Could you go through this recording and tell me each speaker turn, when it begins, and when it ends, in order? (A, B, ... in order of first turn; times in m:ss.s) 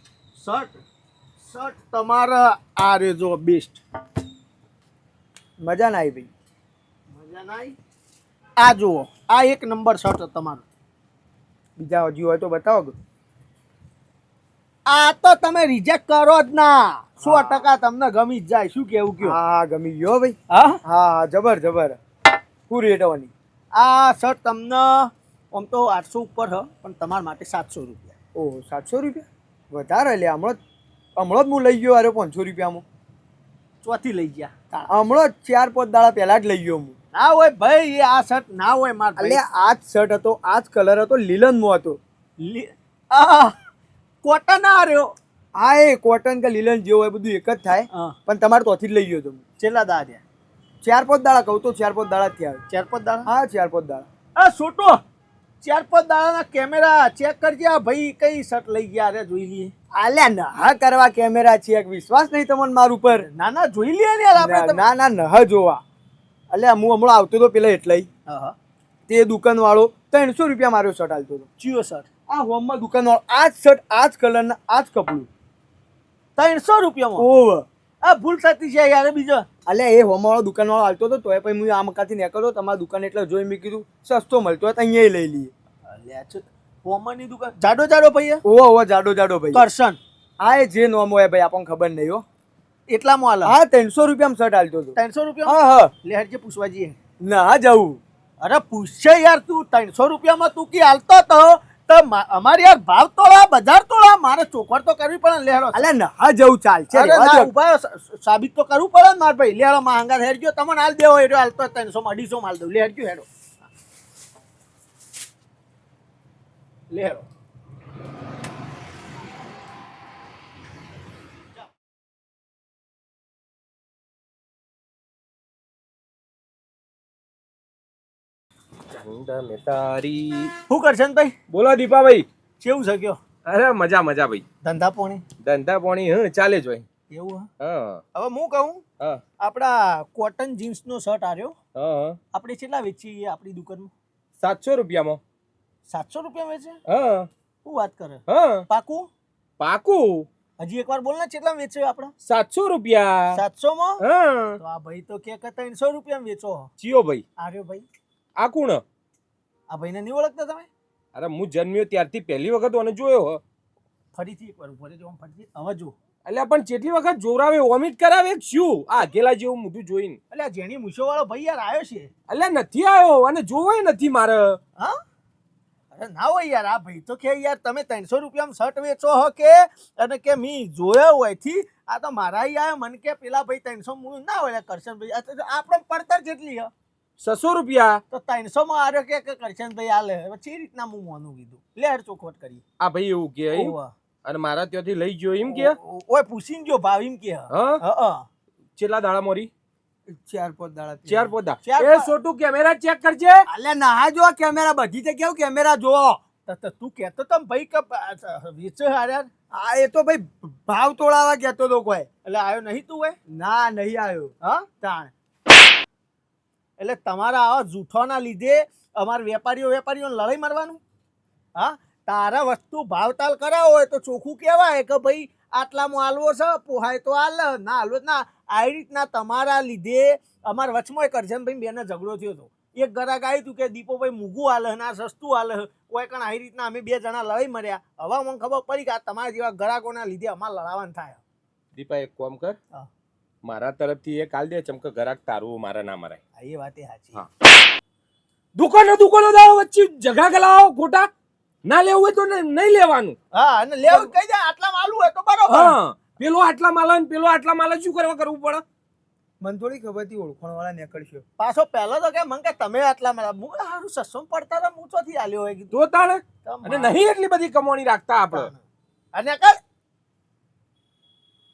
0:00.4-0:00.8 A
0:01.4-0:03.8 A
0:05.6-0:06.3 B
0:07.1-0:07.8 A
0:08.6-0:10.6 A
0:11.8-0:13.0 B
0:14.9-0:19.4 A
0:17.2-0:17.7 B
0:19.2-0:22.0 B
0:20.5-0:20.8 A
0:22.7-0:23.3 B
0:23.7-0:28.2 A
0:28.4-0:30.6 B
0:31.2-0:32.8 B
0:33.8-0:34.9 A
0:34.9-0:37.0 B
0:37.1-0:39.4 A
0:39.2-0:42.0 B
0:42.4-0:43.6 A
0:44.2-0:45.1 A
0:45.6-0:49.4 B
0:47.9-0:48.2 A
0:49.6-0:50.2 A
0:50.8-0:52.6 B
0:52.7-0:53.3 A
0:53.3-0:54.1 B
0:54.4-0:55.0 A
0:55.6-0:59.7 A
0:59.9-1:03.3 B
1:03.1-1:04.9 A
1:04.4-1:05.8 B
1:06.5-1:08.1 B
1:08.3-1:08.6 A
1:09.1-1:11.5 B
1:11.6-1:12.1 A
1:12.3-1:15.3 B
1:16.4-1:17.3 A
1:17.2-1:17.7 B
1:18.0-1:19.5 A
1:19.7-1:25.5 B
1:25.8-1:28.4 A
1:28.5-1:29.6 B
1:29.5-1:30.0 A
1:30.4-1:32.2 B
1:32.9-1:33.6 A
1:33.4-1:35.9 B
1:35.0-1:37.0 A
1:37.2-1:38.0 B
1:38.4-1:45.8 A
1:45.7-1:47.5 B
1:46.9-1:53.3 A
1:56.9-1:57.3 A
2:08.9-2:10.5 C
2:10.7-2:11.3 A
2:11.5-2:12.3 C
2:12.6-2:13.2 A
2:13.4-2:14.4 C
2:14.6-2:15.2 A
2:15.4-2:16.9 C
2:17.1-2:17.5 A
2:17.6-2:18.0 C
2:18.1-2:18.8 A
2:19.4-2:21.6 A
2:21.8-2:22.2 C
2:22.3-2:23.9 A
2:24.4-2:25.2 C
2:25.9-2:26.8 A
2:26.9-2:27.3 C
2:27.6-2:29.1 A
2:28.3-2:28.6 C
2:29.6-2:30.3 C
2:30.6-2:32.1 A
2:32.2-2:33.4 C
2:33.3-2:34.0 A
2:34.0-2:34.6 C
2:34.6-2:36.7 A
2:36.8-2:37.2 C
2:37.4-2:37.9 A
2:38.4-2:38.8 C
2:39.7-2:40.7 A
2:41.2-2:43.4 C
2:44.1-2:46.0 A
2:46.2-2:50.2 C
2:50.3-2:52.1 A
2:52.3-2:54.6 C
2:55.9-3:06.7 A
3:07.2-3:08.0 C
3:08.1-3:12.6 A
3:12.8-3:15.8 C
3:13.5-3:13.9 A
3:15.5-3:18.3 A
3:17.5-3:17.8 C
3:18.8-3:19.5 C
3:20.1-3:21.3 B
3:21.1-3:23.5 C
3:21.6-3:22.1 A
3:23.5-3:26.2 B
3:26.5-3:29.3 A
3:29.5-3:32.1 B
3:32.2-3:33.2 A
3:33.3-3:34.3 B
3:34.4-3:35.1 A
3:36.8-3:40.8 A
3:41.6-4:01.2 A
4:01.7-4:02.6 C
4:03.4-4:06.2 C
4:06.4-4:07.2 A
4:08.6-4:11.1 C
4:11.6-4:13.2 C
4:13.3-4:15.8 A
4:15.5-4:18.6 C
4:19.4-4:21.2 B
4:21.4-4:25.8 A
4:25.7-4:28.5 C
4:26.4-4:27.0 A
4:28.3-4:28.6 A
4:29.1-4:29.6 A